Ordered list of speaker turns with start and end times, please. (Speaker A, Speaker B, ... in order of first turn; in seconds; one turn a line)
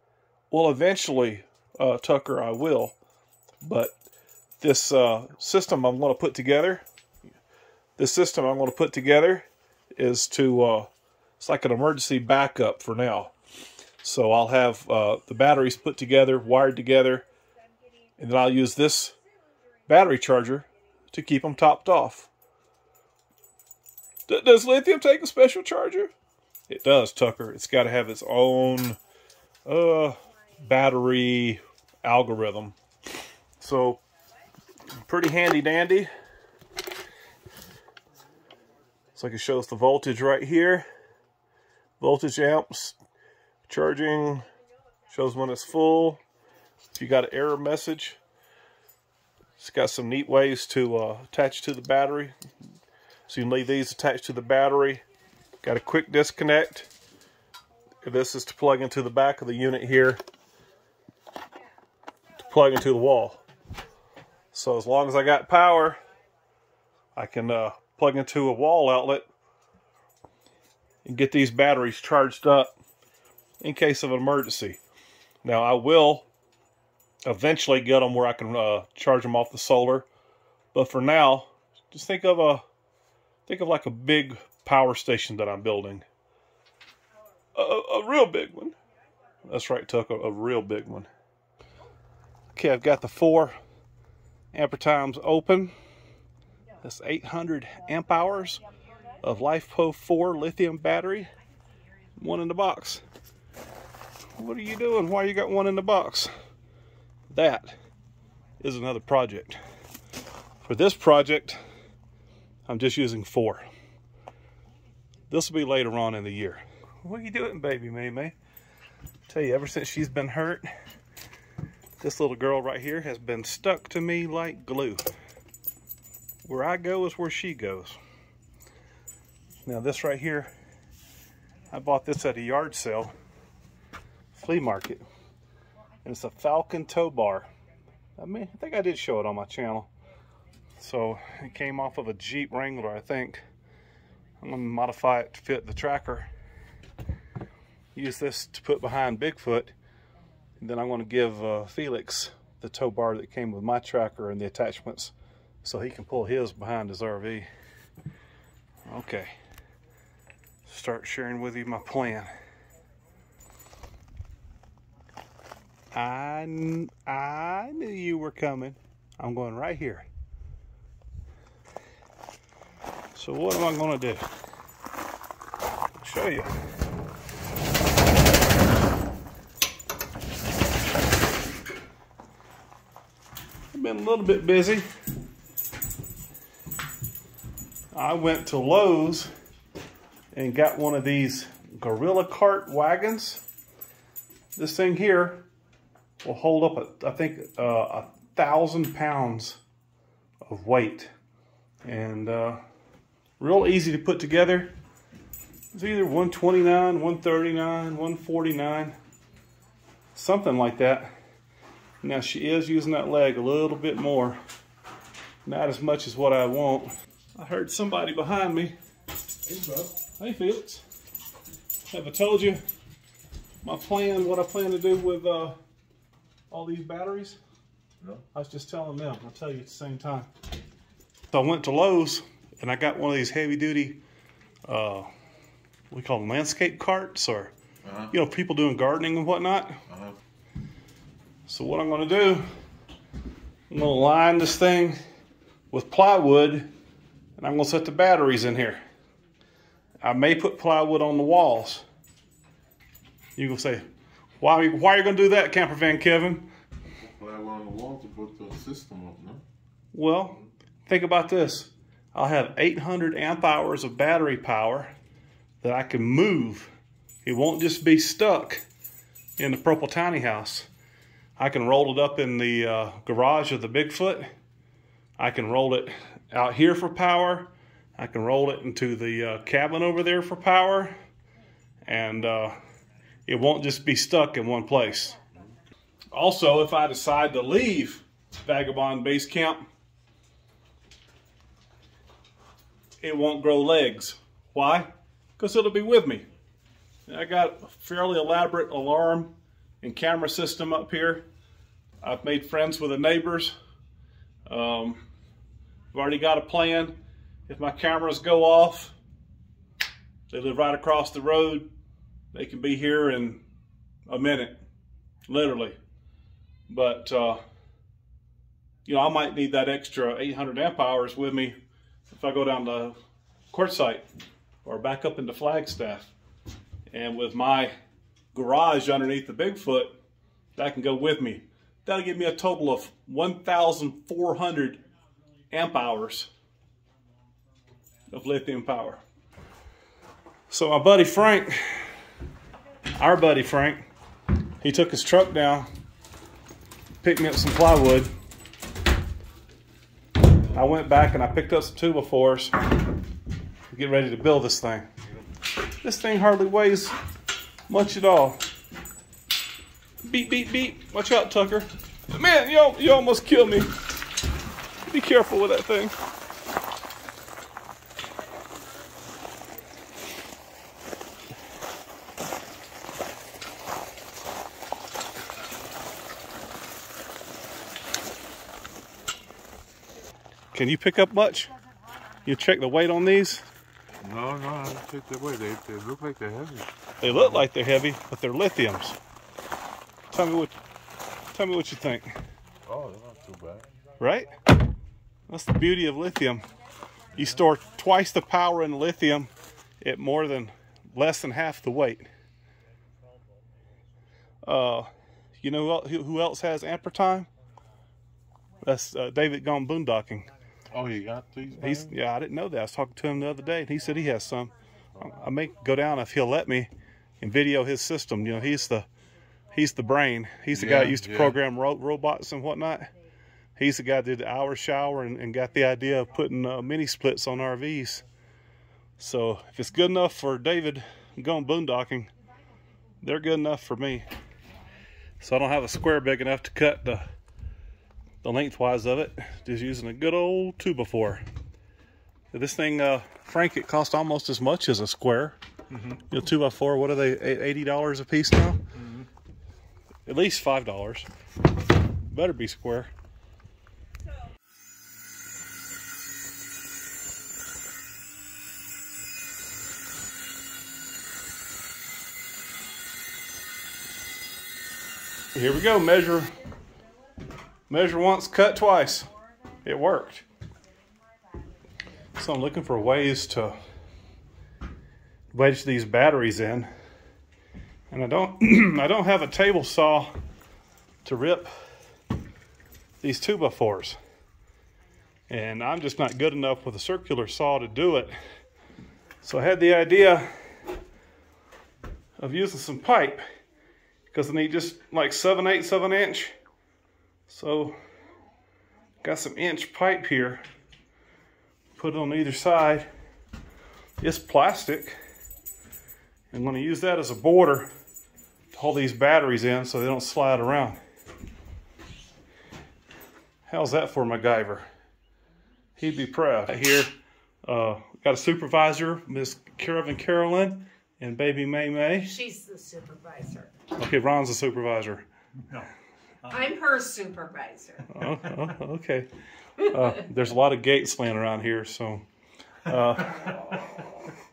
Speaker A: 0.5-3.0
Speaker A: 3.6-4.0
Speaker A: 4.6-6.8
Speaker A: 8.0-13.3
Speaker A: 14.0-17.2
Speaker A: 18.2-19.2
Speaker A: 19.9-22.3
Speaker A: 24.3-26.1
Speaker A: 26.7-29.0
Speaker A: 29.7-32.8
Speaker A: 33.6-34.0
Speaker A: 35.0-36.1
Speaker A: 39.1-40.9
Speaker A: 42.0-43.0
Speaker A: 43.7-44.4
Speaker A: 45.1-46.2
Speaker A: 46.9-48.2
Speaker A: 49.6-52.3
Speaker A: 53.3-55.0
Speaker A: 55.6-56.9
Speaker A: 58.0-60.2
Speaker A: 62.4-63.4
Speaker A: 64.5-66.0
Speaker A: 67.1-69.2
Speaker A: 71.0-72.7
Speaker A: 73.6-74.8
Speaker A: 75.4-76.3
Speaker A: 77.2-80.1
Speaker A: 80.7-82.6
Speaker A: 83.5-86.1
Speaker A: 87.5-88.8
Speaker A: 89.4-91.1
Speaker A: 92.5-93.6
Speaker A: 94.5-95.7
Speaker A: 96.8-98.6
Speaker A: 99.2-101.3
Speaker A: 102.2-103.0
Speaker A: 104.4-106.3
Speaker A: 107.3-107.8
Speaker A: 108.6-109.6
Speaker A: 110.6-111.6
Speaker A: 112.7-113.7
Speaker A: 115.3-118.3
Speaker A: 119.3-120.7
Speaker A: 122.0-125.1
Speaker A: 126.4-128.0
Speaker A: 129.6-130.5
Speaker A: 131.7-133.1
Speaker A: 134.3-135.0
Speaker A: 136.0-137.5
Speaker A: 138.2-139.9
Speaker A: 140.8-143.4
Speaker A: 144.4-146.3
Speaker A: 147.9-149.7
Speaker A: 150.6-157.5
Speaker A: 158.9-159.3
Speaker A: 160.7-162.3
Speaker A: 165.9-170.1
Speaker A: 173.1-174.2
Speaker A: 175.9-176.5
Speaker A: 183.7-184.8
Speaker A: 187.9-189.3
Speaker A: 190.3-193.4
Speaker A: 194.6-195.4
Speaker A: 196.2-199.6
Speaker A: 200.4-201.1
Speaker A: 201.8-202.6
Speaker A: 203.4-204.8
Speaker A: 205.7-208.9
Speaker A: 210.1-211.1
Speaker A: 212.0-214.4
Speaker A: 215.4-218.7
Speaker B: 219.5-219.9
Speaker A: 220.2-220.8
Speaker A: 221.9-222.6
Speaker A: 223.6-225.6
Speaker A: 226.5-227.4
Speaker A: 228.3-230.3
Speaker A: 231.3-234.0
Speaker A: 234.7-235.1
Speaker A: 235.9-237.5
Speaker B: 237.8-238.1
Speaker A: 238.1-239.8
Speaker B: 239.9-240.2
Speaker A: 241.5-242.4
Speaker A: 243.7-245.0
Speaker A: 245.7-246.7
Speaker A: 247.4-248.8
Speaker A: 250.0-251.8
Speaker A: 253.4-253.8
Speaker A: 254.4-256.5
Speaker B: 257.0-259.4
Speaker A: 259.9-264.9
Speaker A: 265.6-266.7
Speaker A: 267.2-268.6
Speaker A: 269.4-270.7
Speaker A: 271.4-274.3
Speaker A: 275.2-280.9
Speaker A: 281.9-282.6
Speaker A: 283.3-285.2
Speaker A: 286.1-289.6
Speaker A: 293.0-296.2
Speaker A: 297.1-301.2
Speaker A: 302.0-303.6
Speaker A: 304.5-305.0
Speaker A: 305.9-307.0
Speaker A: 307.5-308.9
Speaker A: 310.3-311.7
Speaker A: 312.3-313.4
Speaker A: 314.1-314.6
Speaker A: 315.3-315.8
Speaker A: 316.7-317.4
Speaker A: 318.9-321.5
Speaker A: 322.1-322.9
Speaker A: 323.5-324.0
Speaker A: 324.6-326.1
Speaker A: 326.9-327.7
Speaker A: 328.3-330.0
Speaker A: 330.6-334.8
Speaker A: 335.5-336.3
Speaker A: 338.1-339.0
Speaker A: 340.5-341.8
Speaker A: 343.0-343.8
Speaker A: 344.6-345.7
Speaker A: 347.0-348.1
Speaker A: 350.5-352.5
Speaker A: 353.7-354.9
Speaker A: 355.8-357.0
Speaker A: 357.7-358.4
Speaker A: 360.0-363.7
Speaker A: 364.9-365.9
Speaker A: 380.5-381.5
Speaker A: 382.2-383.5
Speaker B: 384.0-387.4
Speaker A: 387.0-389.0
Speaker A: 390.1-390.5
Speaker A: 391.3-392.1
Speaker B: 392.6-393.7
Speaker A: 394.0-394.4
Speaker A: 395.3-396.5
Speaker A: 397.1-399.3
Speaker A: 399.8-402.1
Speaker A: 404.4-404.9
Speaker A: 405.4-407.3
Speaker A: 408.6-410.3
Speaker B: 410.7-411.9
Speaker A: 411.6-416.7
Speaker A: 417.2-418.9
Speaker A: 419.5-422.9
Speaker B: 420.5-421.4
Speaker A: 423.6-428.0
Speaker A: 429.0-432.1
Speaker A: 433.0-434.0
Speaker A: 435.2-437.0
Speaker A: 438.2-441.2
Speaker A: 442.3-448.6
Speaker A: 450.1-451.1
Speaker A: 452.1-452.9
Speaker A: 465.4-466.3
Speaker A: 467.7-469.1
Speaker A: 469.6-470.2
Speaker A: 472.2-473.6
Speaker A: 475.3-476.7
Speaker A: 477.9-480.1
Speaker A: 481.0-481.5
Speaker A: 483.0-484.0
Speaker A: 485.3-488.1
Speaker A: 489.2-490.3
Speaker A: 492.2-493.2
Speaker A: 494.1-496.4
Speaker A: 497.3-497.8
Speaker A: 499.0-500.4
Speaker A: 501.8-502.9
Speaker A: 504.0-505.0
Speaker A: 506.3-507.7
Speaker A: 508.5-510.8
Speaker A: 513.5-514.6
Speaker A: 515.8-516.9
Speaker A: 517.5-522.1
Speaker C: 522.0-523.5
Speaker A: 523.7-525.0
Speaker C: 526.3-528.0
Speaker A: 527.9-532.0
Speaker A: 532.6-533.9